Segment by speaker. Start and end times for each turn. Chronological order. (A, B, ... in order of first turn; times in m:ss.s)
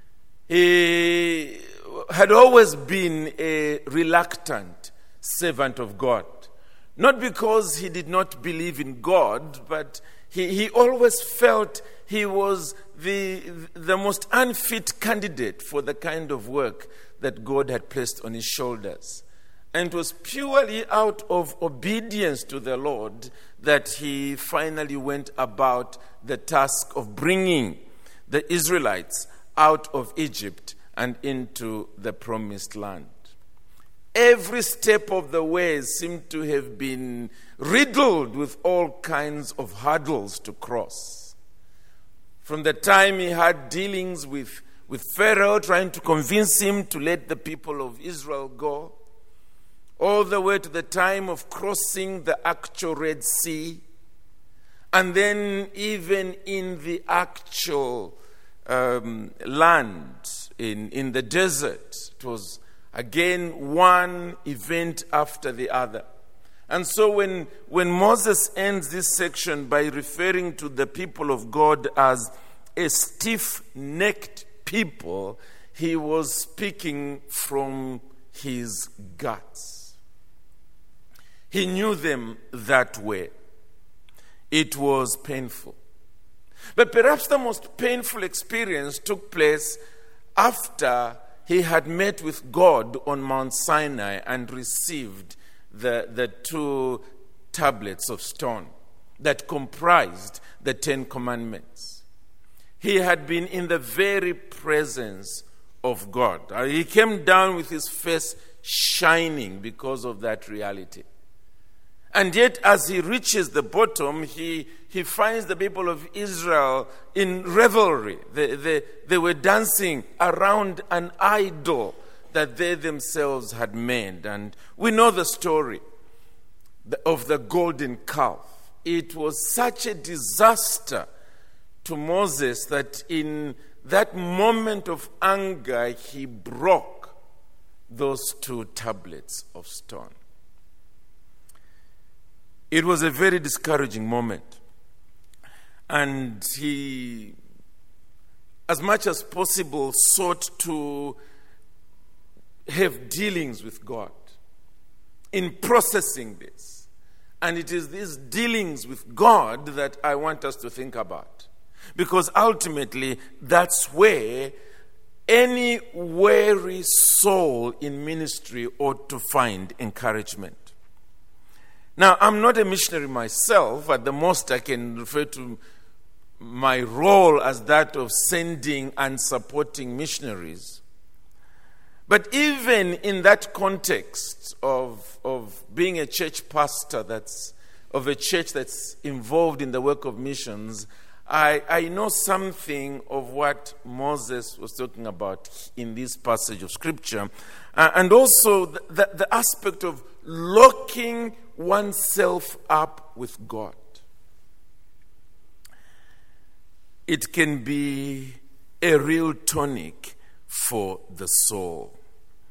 0:00.5-0:33.3 A
0:34.1-0:41.4 A
0:42.4-0:49.0 A
0:50.0-0:53.8 A
0:54.9-1:06.0 A
1:06.7-1:20.0 A
1:21.5-1:23.3 A
1:24.5-1:25.8 A
1:26.7-1:29.8 A
1:30.4-1:42.0 A
1:42.8-1:51.1 A
1:52.1-2:05.8 A
2:06.8-2:11.1 A
2:11.8-2:17.2 A
2:17.9-2:20.2 A
2:22.7-2:24.6 A
2:25.9-2:27.4 A
2:28.7-2:31.2 A
2:32.7-2:34.4 A
2:35.3-2:36.9 A
2:37.4-2:44.5 A
2:45.3-2:50.7 A
2:52.0-2:55.6 A
2:56.4-3:00.8 A
3:02.1-3:24.0 A
3:27.1-3:32.0 A